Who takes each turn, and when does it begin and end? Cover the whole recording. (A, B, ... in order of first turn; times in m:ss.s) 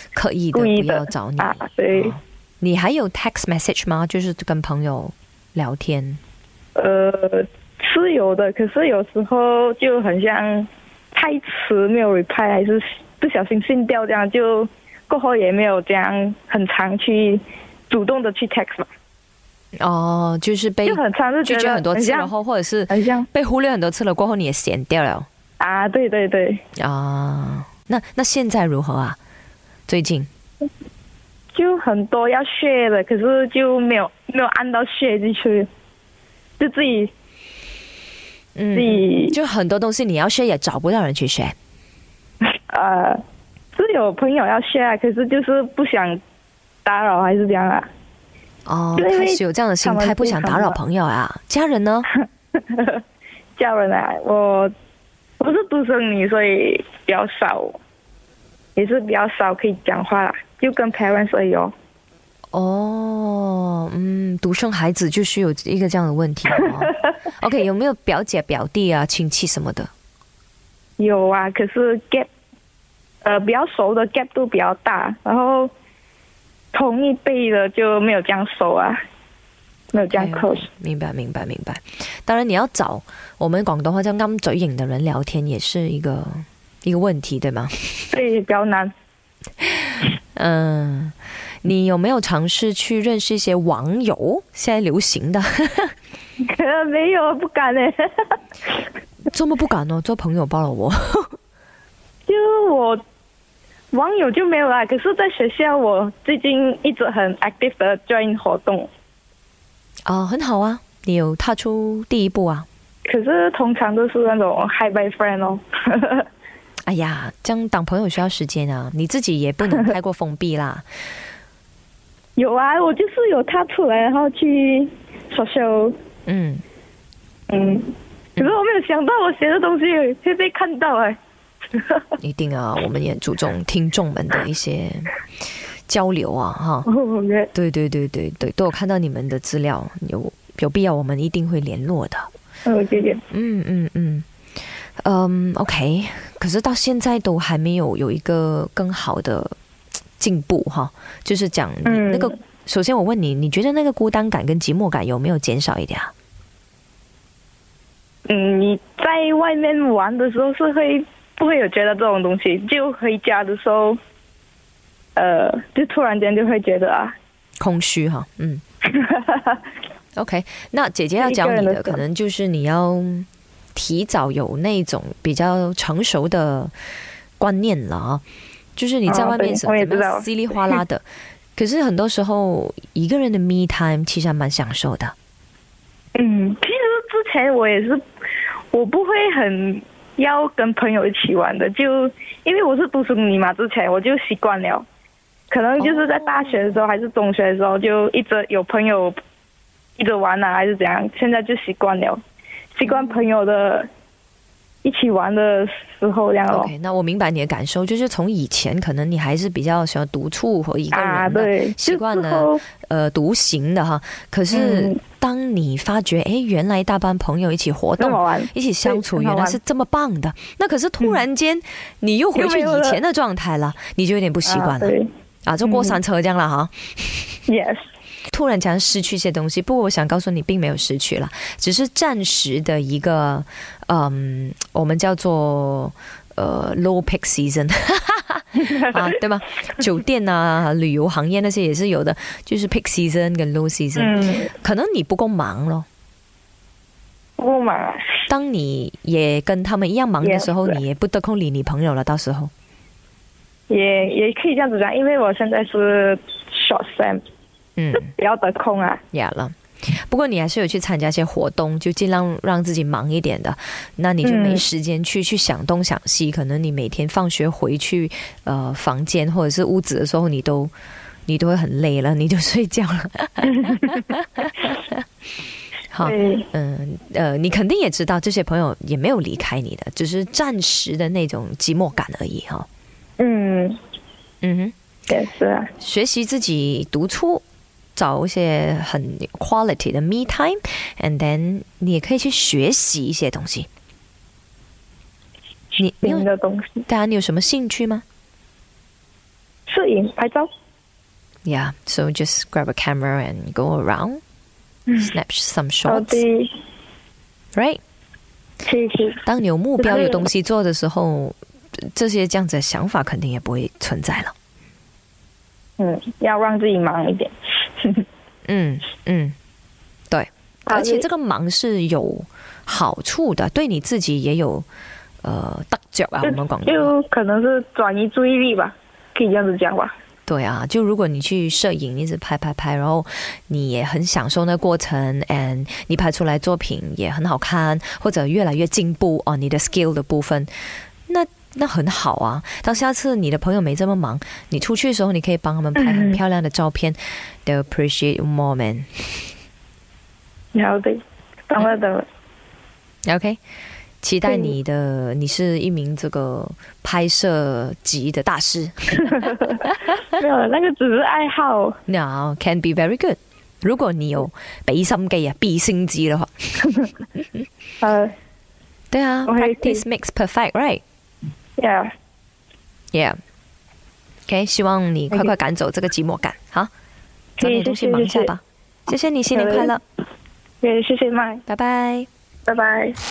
0:00.1-0:06.2 A
0:00.5-0:02.1 B
0:06.8-0:18.9 B
0:19.8-0:25.3 A
0:20.8-0:22.3 B
0:22.9-0:23.3 B
0:25.6-0:26.6 B
0:26.8-0:29.2 A
0:29.9-0:30.3 A
0:31.5-0:35.7 B
0:36.6-0:37.1 B
0:38.6-0:41.5 A
0:38.7-0:39.3 B
0:42.7-0:43.2 B
0:43.8-0:46.2 B
0:46.8-0:47.9 B
0:48.6-0:52.1 A
0:49.0-0:50.8 B
0:52.1-0:53.0 B
0:53.6-0:54.7 B
0:55.4-0:57.8 B
0:58.8-1:01.7 B
1:02.5-1:09.9 A
1:06.6-1:06.9 B
1:11.0-1:12.3 B
1:13.2-1:15.7 B
1:16.7-1:19.0 B
1:19.9-1:20.6 B
1:20.0-1:28.1 A
1:28.1-1:28.9 B
1:29.6-1:35.9 A
1:36.4-1:38.4 B
1:39.3-1:41.3 A
1:42.3-1:43.0 B
1:43.9-1:48.9 B
1:50.0-1:52.7 A
1:53.0-1:56.2 B
1:56.8-2:00.8 A
2:02.4-2:05.9 B
2:06.2-2:06.6 A
2:07.5-2:11.1 B
2:11.7-2:12.0 B
2:12.2-2:15.1 A
2:15.9-2:16.9 A
2:16.9-2:17.5 B
2:17.5-2:22.3 A
2:22.6-2:23.2 B
2:23.3-2:24.2 A
2:25.0-2:29.6 A
2:30.2-2:36.1 A
2:31.8-2:32.4 B
2:38.3-2:44.0 B
2:45.2-2:47.1 B
2:47.6-2:48.6 A
2:48.9-2:49.6 B
2:50.2-2:56.7 A
2:51.2-2:52.0 B
2:57.4-2:58.2 A
2:58.8-3:01.0 A
2:59.1-3:00.8 B
3:01.6-3:05.1 A
3:06.1-3:08.0 B
3:08.7-3:14.8 B
3:15.5-3:19.2 B
3:15.8-3:16.7 A
3:20.0-3:22.2 B
3:22.7-3:23.9 B
3:22.8-3:23.3 A
3:24.8-3:26.7 B
3:26.5-3:44.9 A
3:30.9-3:32.6 B
3:34.5-3:35.0 B
3:38.0-3:39.6 B
3:42.3-3:43.0 B
3:44.4-3:45.1 B
3:45.4-3:47.4 A
3:45.6-3:46.0 B
3:47.5-3:47.8 B
3:48.3-4:05.8 A
3:58.7-3:59.0 B
4:04.0-4:04.5 B
4:07.4-4:08.2 B
4:08.3-4:12.5 A
4:10.2-4:10.8 B
4:13.7-4:17.2 B
4:17.8-4:18.1 A
4:18.0-4:19.0 B
4:19.1-4:30.7 A
4:24.2-4:24.6 B
4:31.3-4:35.0 A
4:35.9-4:42.7 A
4:36.0-4:36.4 B
4:43.2-4:43.8 B
4:44.4-4:44.7 A
4:45.1-4:45.7 B
4:45.8-4:47.4 A
4:48.0-4:53.7 A
4:55.8-4:56.3 A
4:56.0-4:56.8 B
4:56.9-4:58.0 A
4:59.7-5:00.5 B
5:01.4-5:04.2 A
5:05.0-5:06.2 A
5:05.8-5:06.5 B
5:07.5-5:07.8 A
5:08.6-5:09.2 B
5:09.2-5:14.3 A
5:09.8-5:10.3 B
5:15.8-5:18.0 B
5:18.5-5:19.3 A
5:20.1-5:24.6 A
5:20.7-5:21.0 B
5:25.2-5:26.9 A
5:26.2-5:29.9 B
5:30.3-5:40.5 A
5:41.1-5:49.3 A
5:45.8-5:46.2 B
5:50.5-5:52.0 B
5:53.0-5:53.4 A
5:54.0-6:00.0 A
5:54.2-5:54.5 B
6:00.0-6:01.7 B
6:01.9-6:06.3 A
6:06.6-6:06.9 B
6:07.8-6:08.1 B
6:08.9-6:10.8 A
6:09.3-6:09.8 B
6:11.6-6:11.9 B
6:14.3-6:16.7 A
6:17.4-6:19.8 A
6:17.4-6:18.3 B
6:19.3-6:19.7 B
6:20.6-6:21.4 B
6:21.5-6:22.1 A
6:22.5-6:23.0 B